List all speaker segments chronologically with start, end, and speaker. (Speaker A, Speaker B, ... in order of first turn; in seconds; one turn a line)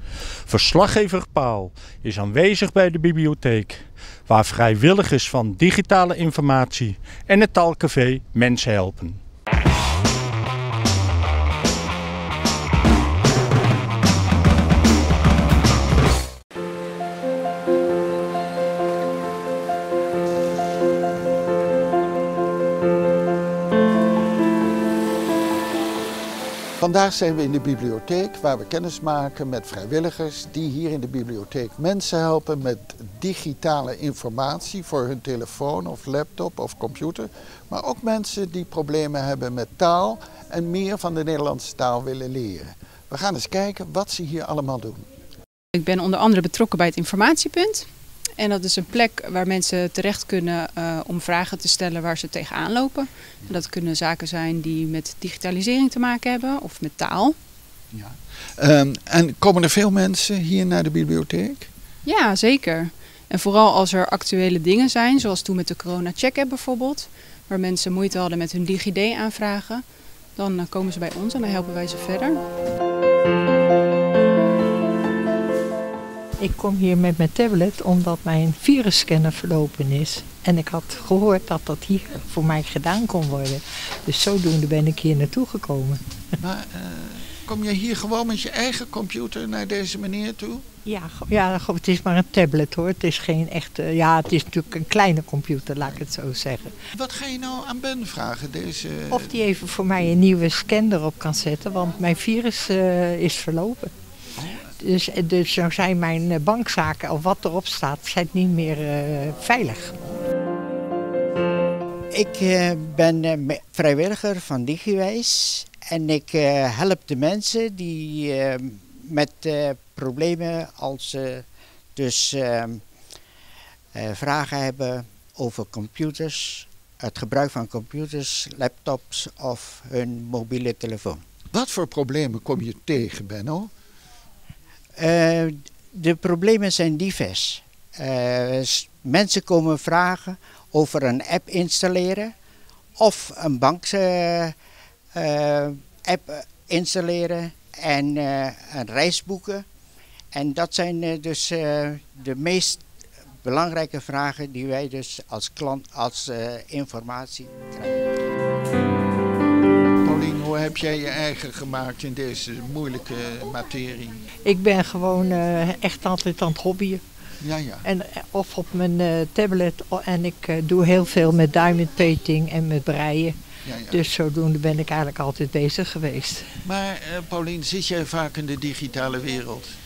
Speaker A: 0.5-9.2
Speaker B: 26.8-45.0
Speaker C: 45.7-57.4
Speaker B: 57.9-61.7
Speaker C: 62.0-72.4
Speaker D: 76.4-86.0
Speaker B: 86.4-90.6
Speaker D: 90.8-96.7
Speaker B: 96.9-99.4
Speaker D: 99.1-103.9
Speaker D: 104.8-109.9
Speaker E: 112.1-122.8
Speaker E: 123.9-131.2
Speaker B: 131.5-133.7
Speaker E: 135.0-142.3
Speaker E: 143.0-144.5
Speaker E: 145.1-149.6
Speaker E: 150.3-152.8
Speaker E: 153.4-158.0
Speaker B: 160.0-164.2
Speaker D: 164.4-167.0
Speaker B: 167.4-167.8
Speaker D: 167.8-173.3
Speaker B: 173.7-174.1
Speaker D: 173.9-176.4
Speaker B: 176.6-179.7